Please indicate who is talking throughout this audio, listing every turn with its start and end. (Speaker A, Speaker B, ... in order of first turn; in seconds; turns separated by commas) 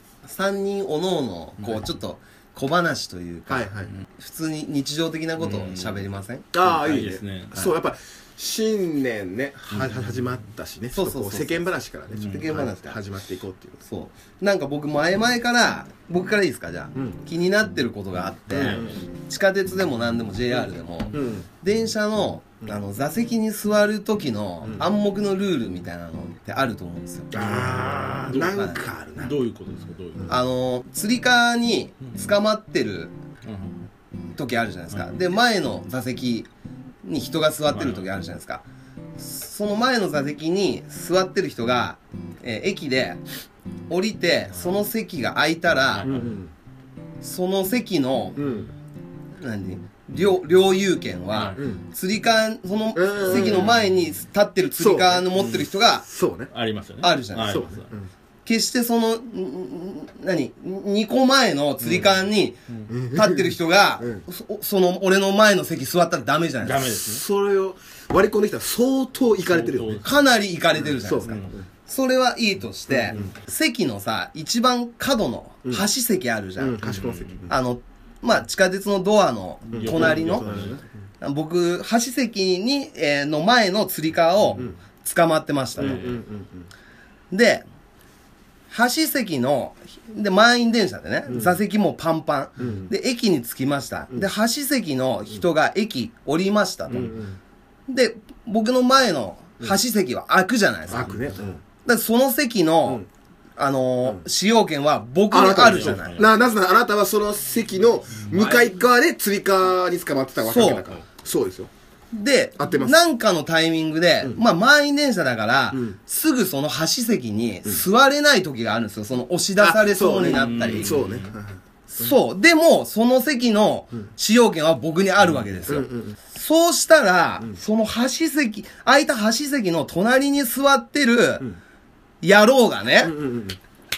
Speaker A: 0.2-6.5, Speaker B: 3.5-3.9, Speaker C: 5.4-6.1, Speaker B: 6.5-13.8, Speaker C: 6.6-7.5, Speaker A: 10.9-11.7, Speaker C: 12.1-12.5, Speaker A: 12.3-13.0, Speaker A: 13.8-27.5, Speaker B: 16.9-17.2, Speaker B: 18.5-19.1, Speaker B: 21.1-21.5, Speaker B: 27.3-29.4, Speaker C: 27.5-30.3, Speaker A: 28.5-28.8, Speaker A: 30.3-33.1, Speaker C: 33.5-33.8, Speaker A: 34.3-36.5, Speaker A: 37.0-38.6, Speaker C: 37.7-38.1, Speaker A: 39.2-43.2, Speaker A: 43.9-46.1, Speaker C: 45.9-46.4, Speaker B: 46.0-46.5, Speaker A: 47.2-48.4, Speaker B: 48.4-48.7, Speaker A: 49.4-56.1, Speaker C: 51.3-51.6, Speaker B: 51.6-51.8, Speaker B: 52.9-53.7, Speaker C: 53.5-53.9, Speaker B: 54.8-56.5, Speaker C: 56.5-57.9, Speaker A: 57.0-57.6, Speaker B: 57.5-58.1, Speaker A: 58.5-62.6, Speaker B: 61.8-62.1, Speaker B: 62.9-64.2, Speaker A: 63.1-67.0, Speaker C: 66.6-67.2, Speaker B: 67.1-70.0, Speaker C: 69.5-70.2, Speaker A: 70.0-76.8, Speaker B: 70.9-71.7, Speaker B: 72.9-73.3, Speaker B: 76.6-77.5, Speaker C: 76.8-77.4, Speaker A: 77.5-80.5, Speaker B: 79.7-80.8, Speaker C: 79.8-80.8, Speaker A: 81.2-86.0, Speaker C: 85.8-86.2, Speaker B: 85.8-86.7, Speaker A: 87.3-87.7, Speaker A: 88.7-97.1, Speaker B: 92.6-92.9, Speaker B: 97.0-97.4, Speaker A: 97.9-101.1, Speaker B: 100.9-101.6, Speaker A: 101.8-103.0, Speaker A: 103.6-106.2, Speaker B: 105.3-111.7, Speaker C: 105.6-106.4, Speaker C: 108.2-108.8, Speaker A: 110.4-111.0, Speaker A: 112.1-121.0, Speaker B: 112.6-113.0, Speaker B: 115.7-116.0, Speaker B: 119.6-121.6, Speaker C: 120.2-121.3, Speaker A: 121.9-131.5, Speaker B: 125.7-126.2, Speaker A: 132.2-133.1, Speaker B: 133.0-133.6